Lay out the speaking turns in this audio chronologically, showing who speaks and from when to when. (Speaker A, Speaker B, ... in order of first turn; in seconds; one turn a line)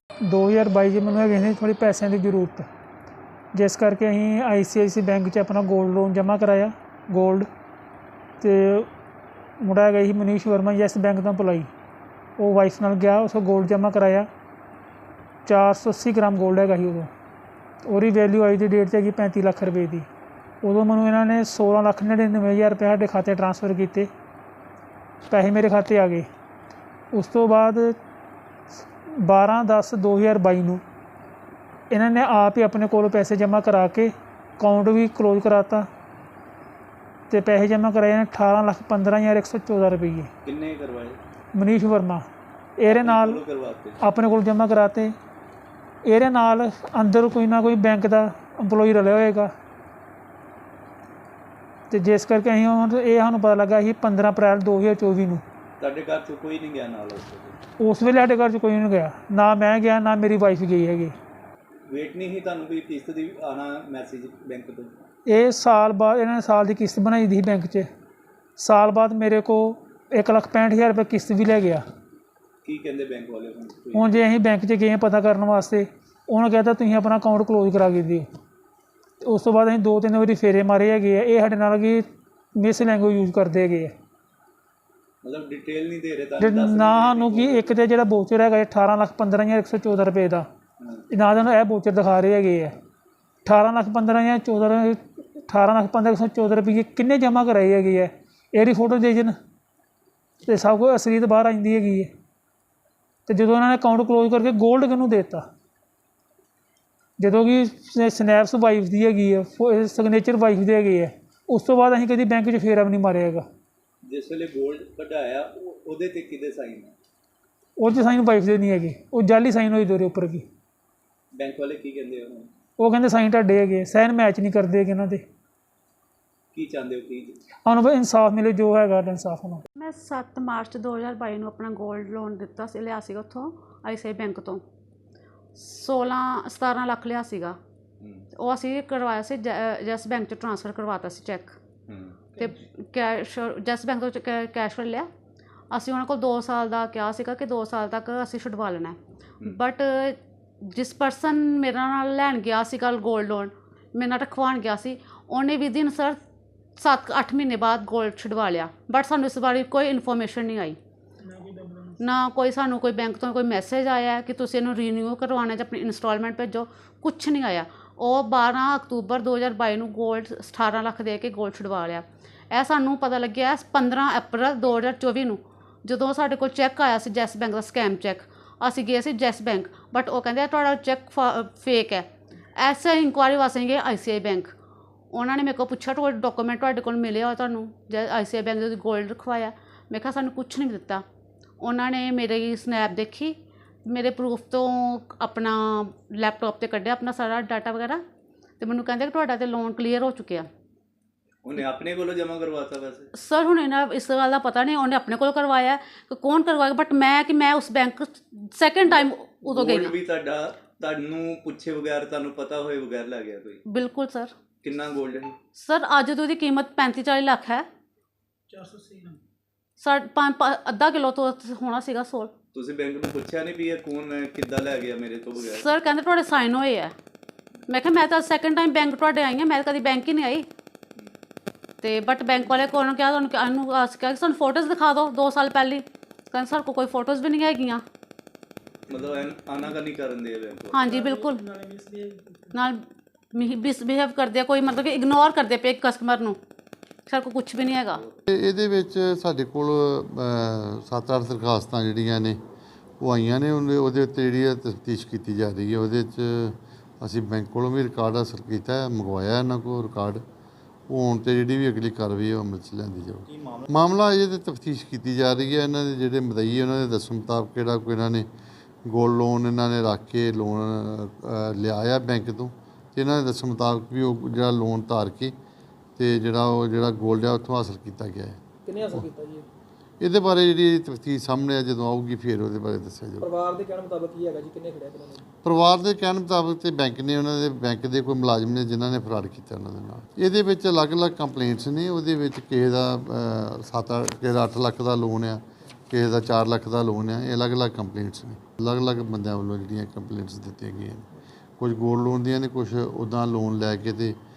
Speaker A: 0.3-2.7
Speaker A: 3.6-7.5
Speaker A: 8.4-8.9
Speaker A: 9.6-11.7
Speaker A: 12.4-14.3
Speaker A: 15.5-17.1
Speaker A: 17.8-20.1
Speaker A: 20.6-24.1
Speaker A: 25.3-26.3
Speaker A: 27.1-28.0
Speaker A: 29.2-30.8
Speaker A: 31.9-35.9
Speaker A: 37.3-40.3
Speaker B: 40.5-41.2
Speaker A: 41.6-42.2
Speaker A: 42.8-43.4
Speaker B: 42.9-44.0
Speaker A: 44.0-45.1
Speaker A: 46.0-49.5
Speaker A: 51.9-55.4
Speaker B: 55.8-57.6
Speaker A: 57.8-61.1
Speaker B: 61.9-65.0
Speaker A: 65.3-67.9
Speaker A: 68.6-71.8
Speaker B: 72.6-74.2
Speaker A: 73.9-78.3
Speaker A: 79.2-82.0
Speaker A: 82.6-83.9
Speaker B: 85.2-87.7
Speaker A: 86.4-90.5
Speaker B: 90.8-91.0
Speaker A: 91.1-92.7
Speaker A: 93.5-99.3
Speaker A: 100.5-102.1
Speaker A: 103.3-105.5
Speaker A: 107.2-113.5
Speaker B: 114.1-116.9
Speaker A: 117.8-120.5
Speaker B: 121.3-122.5
Speaker A: 122.8-125.2
Speaker B: 126.5-127.4
Speaker A: 127.7-129.6
Speaker C: 129.8-134.6
Speaker C: 135.6-137.6
Speaker B: 138.0-138.3
Speaker C: 138.4-141.6
Speaker B: 141.9-142.3
Speaker C: 142.4-145.1
Speaker C: 145.7-156.2
Speaker C: 156.8-160.8
Speaker C: 162.0-182.1
Speaker C: 182.6-184.5
Speaker C: 185.1-191.0
Speaker C: 191.6-198.0
Speaker C: 198.6-200.5
Speaker B: 201.4-203.1
Speaker C: 203.2-209.9
Speaker B: 208.8-213.6
Speaker C: 213.7-214.3
Speaker B: 214.6-215.4
Speaker C: 215.6-217.7
Speaker C: 219.8-222.3
Speaker B: 222.5-225.7
Speaker C: 225.4-226.9
Speaker C: 227.7-230.5
Speaker C: 231.8-237.8
Speaker B: 238.9-240.9
Speaker C: 240.7-241.5
Speaker D: 240.9-242.4
Speaker C: 242.5-242.8
Speaker C: 243.3-246.4
Speaker C: 247.1-248.0
Speaker E: 248.3-252.4
Speaker E: 253.0-260.2
Speaker E: 260.9-268.3
Speaker E: 268.9-275.4
Speaker E: 276.0-279.1
Speaker D: 278.7-279.1
Speaker E: 280.0-283.4
Speaker D: 283.2-283.9
Speaker E: 285.4-301.1
Speaker E: 301.6-304.2